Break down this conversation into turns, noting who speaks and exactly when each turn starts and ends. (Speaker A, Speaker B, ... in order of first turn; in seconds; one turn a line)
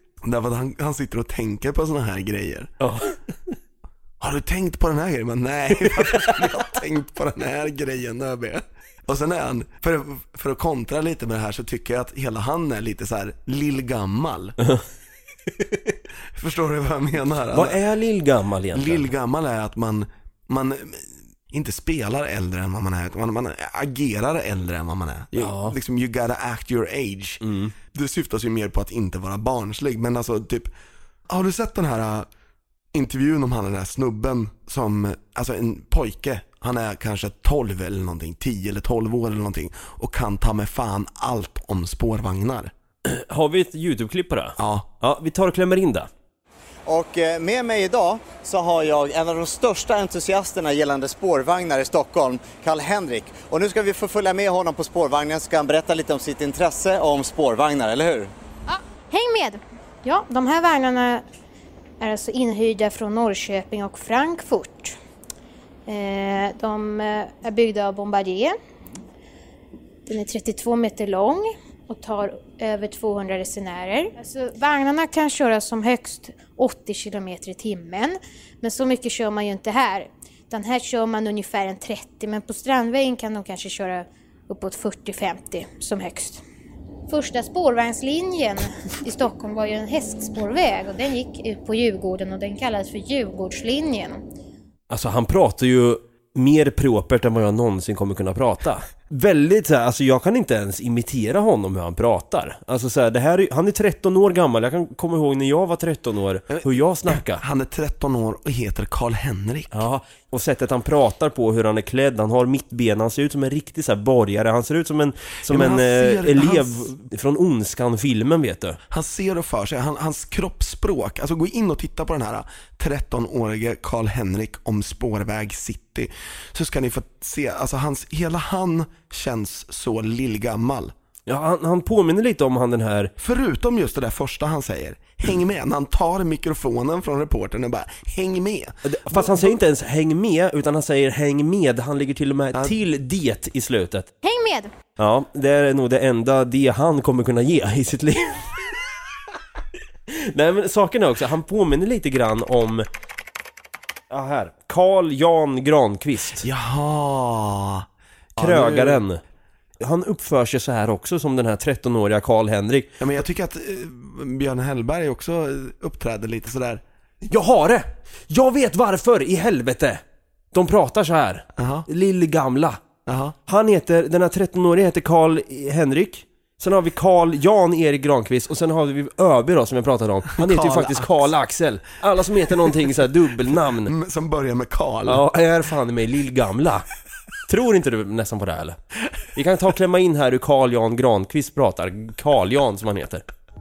Speaker A: 0.2-2.7
Speaker B: 2.8-3.2
Speaker A: 4.2-14.6
Speaker B: 5.8-6.4
Speaker A: 16.3-17.8
Speaker B: 17.5-19.1
Speaker A: 18.7-27.4
Speaker B: 25.4-25.8
Speaker B: 27.4-27.7
Speaker A: 27.9-30.7
Speaker A: 31.3-32.3
Speaker A: 32.9-42.7
Speaker B: 43.0-46.1
Speaker A: 44.6-44.9
Speaker C: 46.9-58.3
Speaker D: 58.7-61.2
Speaker D: 62.0-64.9
Speaker D: 65.8-68.6
Speaker D: 70.0-86.4
Speaker D: 87.1-94.2
Speaker B: 94.9-107.4
Speaker A: 106.5-109.8
Speaker B: 109.7-118.8
Speaker A: 115.4-116.9
Speaker A: 118.9-130.9
Speaker B: 131.3-133.1
Speaker A: 133.2-139.6
Speaker B: 138.8-144.1
Speaker D: 144.2-144.7
Speaker B: 145.0-148.6
Speaker B: 150.1-152.8
Speaker B: 154.1-156.5
Speaker A: 156.4-159.0
Speaker B: 158.4-159.2
Speaker B: 159.8-163.0
Speaker A: 163.0-166.8
Speaker B: 167.2-172.8
Speaker A: 171.5-171.9
Speaker A: 173.1-173.3
Speaker B: 173.5-183.9
Speaker A: 180.3-181.3
Speaker A: 183.6-185.2
Speaker B: 185.1-186.8
Speaker B: 187.5-188.8
Speaker B: 189.3-193.2